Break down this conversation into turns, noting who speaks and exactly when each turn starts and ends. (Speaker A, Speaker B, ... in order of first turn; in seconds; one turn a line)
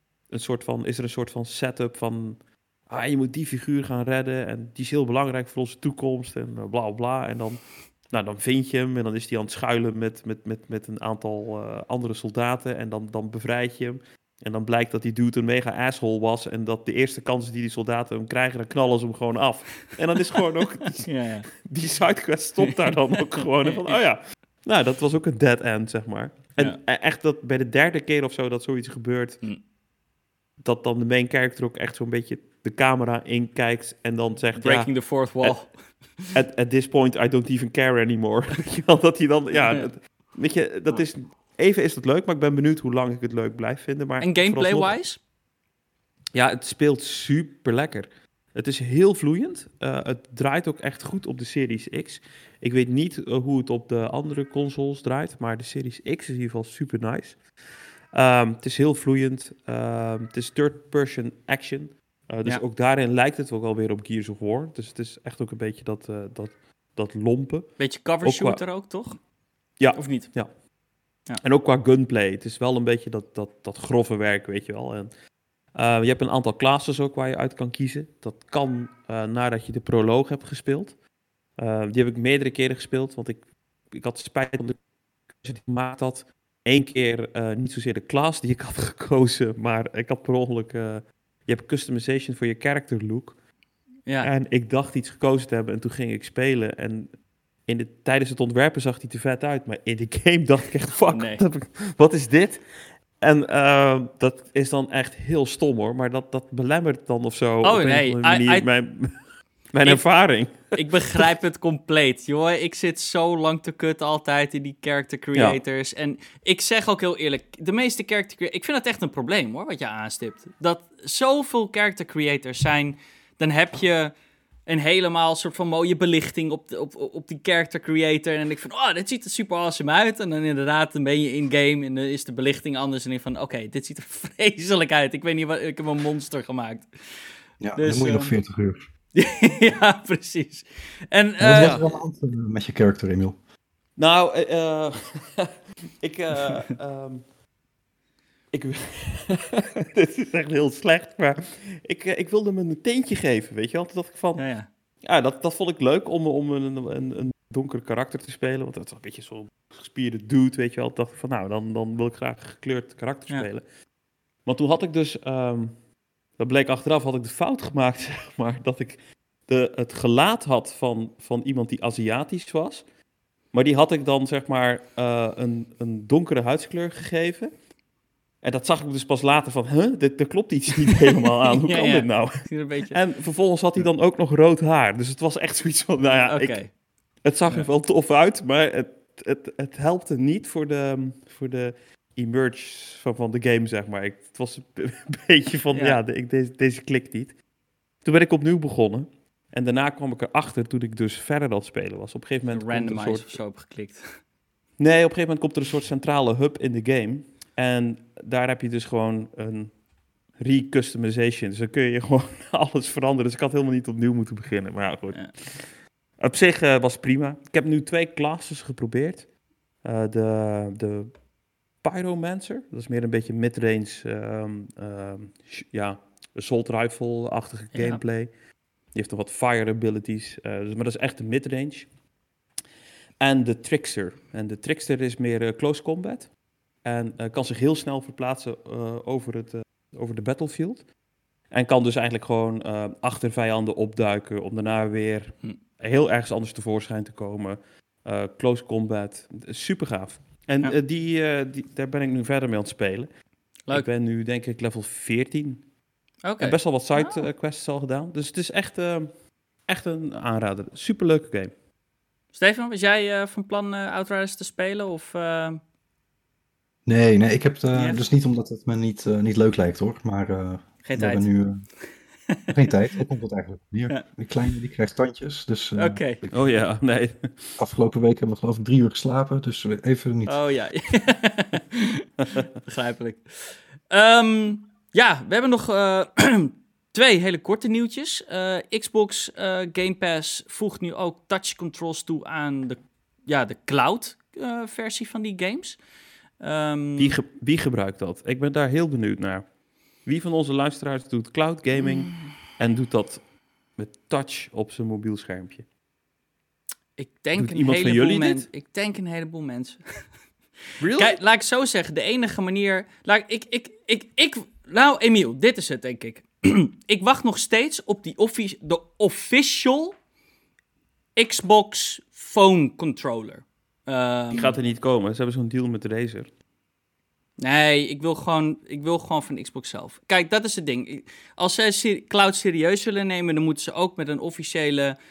Speaker A: 0.3-29.4
Speaker B: 21.0-21.5
Speaker B: 22.6-22.9
Speaker A: 30.6-35.6
Speaker B: 34.6-36.3
Speaker A: 36.3-44.9
Speaker B: 44.2-45.2
Speaker A: 46.3-68.6
Speaker B: 67.8-69.2
Speaker A: 69.8-70.5
Speaker B: 69.9-70.3
Speaker A: 71.4-75.1
Speaker A: 75.7-81.0
Speaker A: 81.6-84.8
Speaker A: 85.3-93.4
Speaker A: 94.2-109.2
Speaker B: 101.1-101.4
Speaker B: 107.6-108.7
Speaker A: 109.7-111.2
Speaker B: 110.7-124.1
Speaker B: 124.7-136.9
Speaker C: 137.6-138.8
Speaker B: 137.8-138.3
Speaker B: 139.1-141.8
Speaker C: 141.4-143.3
Speaker A: 141.6-141.9
Speaker A: 144.0-147.2
Speaker A: 148.5-154.5
Speaker B: 154.4-154.7
Speaker A: 155.0-163.7
Speaker A: 164.4-165.8
Speaker A: 166.4-172.8
Speaker A: 173.5-177.6
Speaker A: 178.4-197.3
Speaker B: 181.5-182.9
Speaker B: 186.3-186.8
Speaker B: 195.7-196.0
Speaker A: 198.0-203.4
Speaker B: 202.5-204.2
Speaker A: 204.8-209.8
Speaker A: 210.3-219.3
Speaker A: 219.8-221.2
Speaker A: 221.8-228.3
Speaker B: 227.7-228.0
Speaker A: 228.9-231.9
Speaker A: 233.2-236.3
Speaker A: 236.8-240.9
Speaker A: 241.5-253.1
Speaker A: 253.7-255.7
Speaker B: 256.2-257.3
Speaker A: 256.4-261.5
Speaker B: 262.3-265.6
Speaker C: 266.9-271.6
Speaker B: 267.7-268.0
Speaker B: 270.8-271.3
Speaker C: 272.5-276.4
Speaker B: 275.8-276.2
Speaker A: 276.3-277.5
Speaker C: 277.6-280.4
Speaker B: 280.2-282.1
Speaker B: 282.6-295.8
Speaker B: 296.4-297.2
Speaker A: 297.0-299.4
Speaker A: 300.0-303.2
Speaker B: 301.8-302.4
Speaker A: 303.8-305.6
Speaker B: 307.0-310.1
Speaker A: 307.4-308.5
Speaker A: 310.8-311.2
Speaker B: 310.9-319.9
Speaker B: 321.1-324.5
Speaker A: 324.3-326.3
Speaker B: 327.4-334.9